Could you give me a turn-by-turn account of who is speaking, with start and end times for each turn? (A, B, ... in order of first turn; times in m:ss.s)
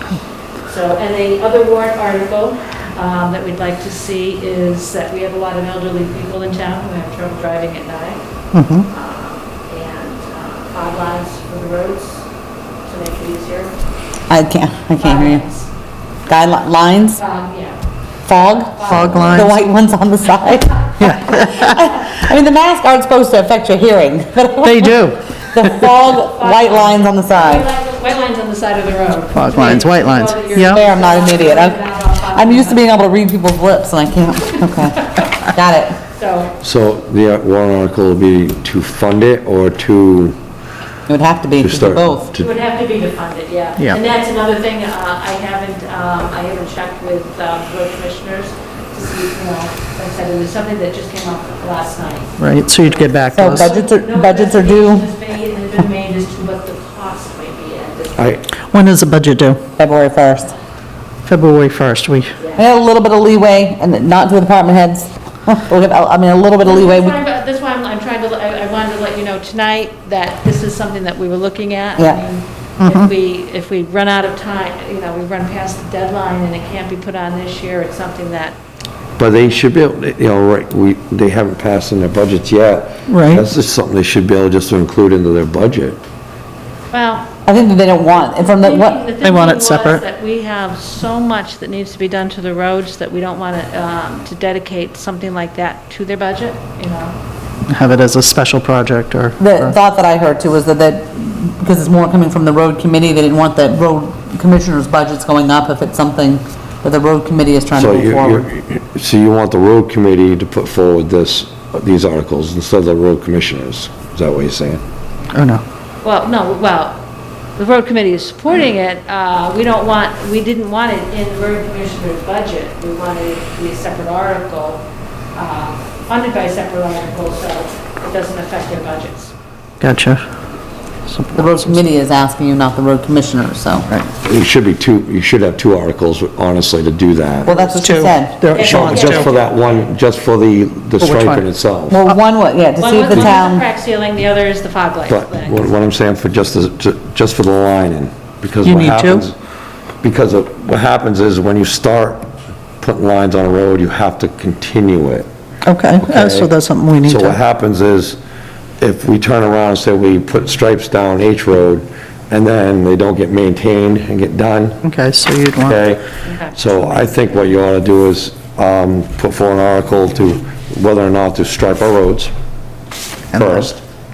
0:00.7-0:08.2 A
0:08.5-0:08.9 B
0:08.9-0:12.2 A
0:12.9-0:13.7 A
0:14.3-0:15.4 C
0:15.0-0:15.7 A
0:16.3-0:17.2 C
0:17.2-0:19.5 A
0:18.3-0:25.0 C
0:18.9-0:19.5 B
0:21.0-0:21.4 A
0:21.0-0:21.8 B
0:24.6-0:25.3 B
0:25.5-0:27.7 C
0:26.1-0:32.8 A
0:29.3-0:30.8 B
0:30.6-0:31.8 C
0:32.3-0:36.0 C
0:36.1-0:36.6 A
0:36.6-0:40.4 D
0:41.1-0:42.3 C
0:41.6-0:42.5 D
0:42.4-0:58.4 A
0:52.4-0:53.7 B
0:53.3-0:55.1 C
0:58.2-0:58.4 D
0:58.7-0:59.6 B
0:59.8-1:00.5 C
1:01.3-1:02.3 B
1:02.6-1:07.2 C
1:06.6-1:18.6 A
1:19.2-1:26.0 D
1:23.1-1:23.5 B
1:26.9-1:27.3 A
1:27.5-1:29.0 C
1:28.4-1:37.2 A
1:29.2-1:30.0 B
1:37.7-1:39.7 B
1:39.4-1:48.5 C
1:47.7-1:54.8 D
1:55.3-1:55.6 B
1:56.0-1:57.0 A
1:57.6-2:04.8 A
2:05.4-2:09.3 A
2:09.8-2:10.2 B
2:11.1-2:11.8 B
2:11.3-2:13.9 C
2:14.2-2:17.6 D
2:17.5-2:18.4 C
2:17.6-2:19.3 B
2:18.5-2:19.7 A
2:18.6-2:22.0 D
2:21.0-2:21.4 B
2:21.9-2:23.6 C
2:22.8-2:25.6 A
2:25.1-2:29.4 D
2:28.6-2:29.2 B
2:30.0-2:32.2 D
2:32.8-2:35.3 D
2:35.6-2:37.4 B
2:36.0-2:36.5 D
2:37.0-2:38.2 D
2:38.8-2:44.8 D
2:44.8-2:45.8 B
2:45.6-2:52.3 D
2:46.2-2:46.6 A
2:53.3-2:53.7 B
2:53.3-2:53.8 D